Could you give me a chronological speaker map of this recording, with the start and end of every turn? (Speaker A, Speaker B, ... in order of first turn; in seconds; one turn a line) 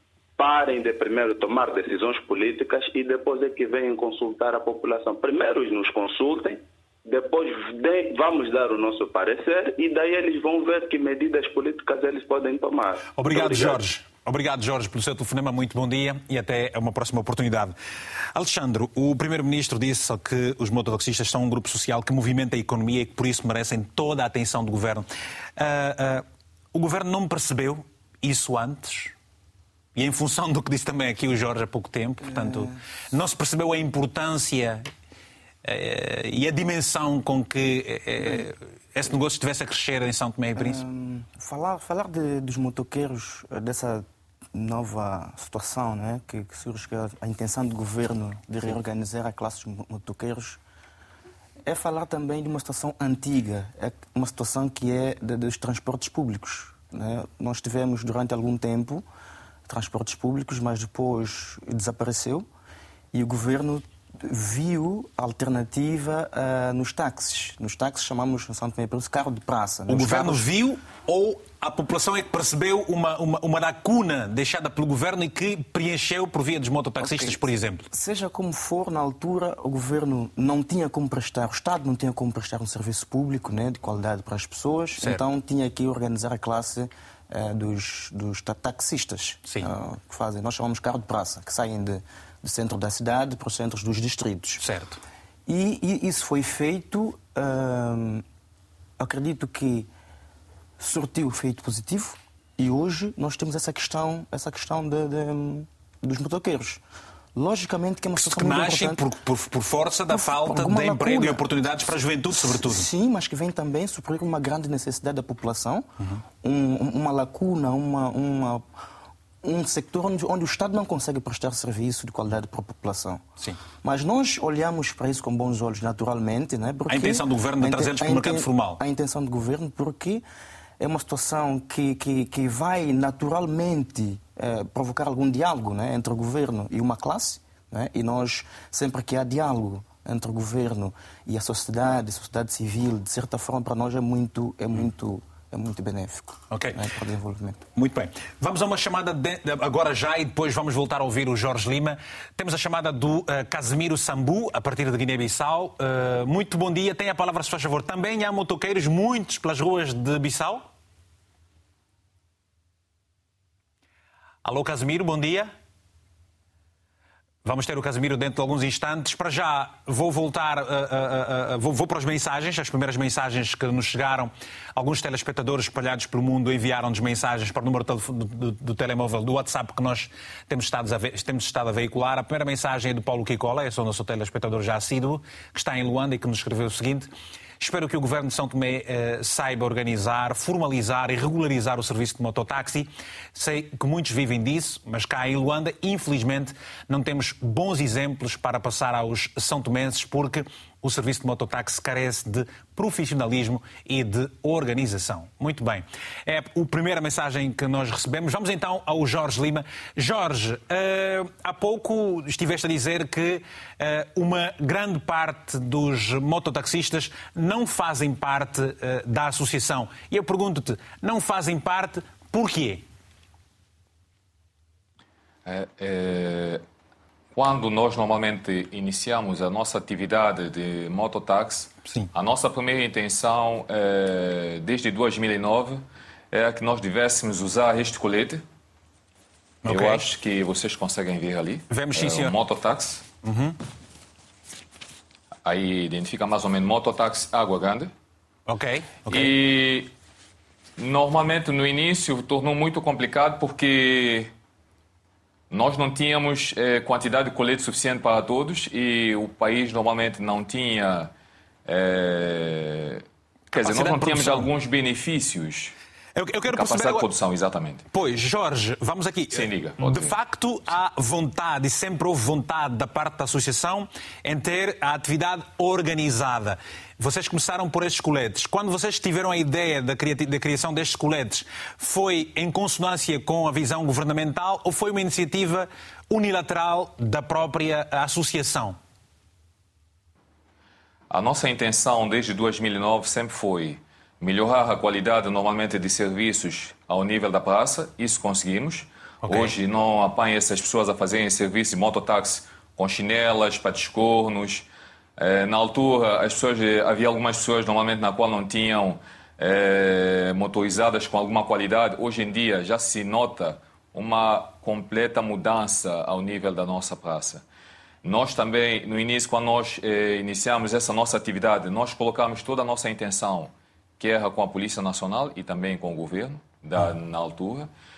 Speaker A: 0.4-13.8
Speaker B: 13.2-17.7
Speaker B: 18.4-25.1
Speaker B: 25.6-29.1
Speaker B: 29.9-34.8
Speaker C: 32.2-32.8
Speaker B: 35.6-40.8
Speaker C: 40.6-50.6
Speaker C: 51.6-59.0
Speaker C: 59.7-62.5
Speaker C: 63.1-70.5
Speaker B: 69.9-77.9
Speaker C: 77.0-94.6
Speaker B: 85.0-85.2
Speaker B: 89.4-89.7
Speaker B: 94.6-95.0
Speaker C: 95.5-98.2
Speaker C: 99.0-99.9
Speaker C: 100.8-106.8
Speaker C: 107.3-109.1
Speaker B: 108.2-112.9
Speaker C: 110.1-111.4
Speaker C: 112.4-115.9
Speaker C: 116.4-118.6
Speaker C: 119.4-123.2
Speaker C: 123.8-130.2
Speaker B: 126.9-128.8
Speaker C: 130.8-147.6
Speaker B: 146.5-146.8
Speaker B: 147.7-160.7
Speaker B: 164.4-165.5
Speaker B: 167.4-187.1
Speaker B: 187.6-222.8
Speaker D: 225.4-226.6
Speaker D: 227.3-238.4
Speaker B: 239.6-240.1
Speaker D: 239.7-243.1
Speaker B: 241.7-242.4
Speaker B: 243.2-243.6
Speaker D: 245.4-247.9
Speaker B: 248.5-249.3
Speaker D: 249.1-249.9
Speaker D: 250.8-254.3
Speaker D: 255.5-261.1
Speaker D: 261.7-263.0
Speaker B: 263.5-264.5
Speaker D: 263.6-265.7
Speaker B: 266.1-267.1
Speaker D: 266.5-267.9
Speaker B: 267.9-288.8
Speaker D: 269.3-270.1
Speaker D: 291.1-304.7
Speaker B: 299.2-299.5
Speaker D: 305.2-317.4
Speaker D: 318.0-327.7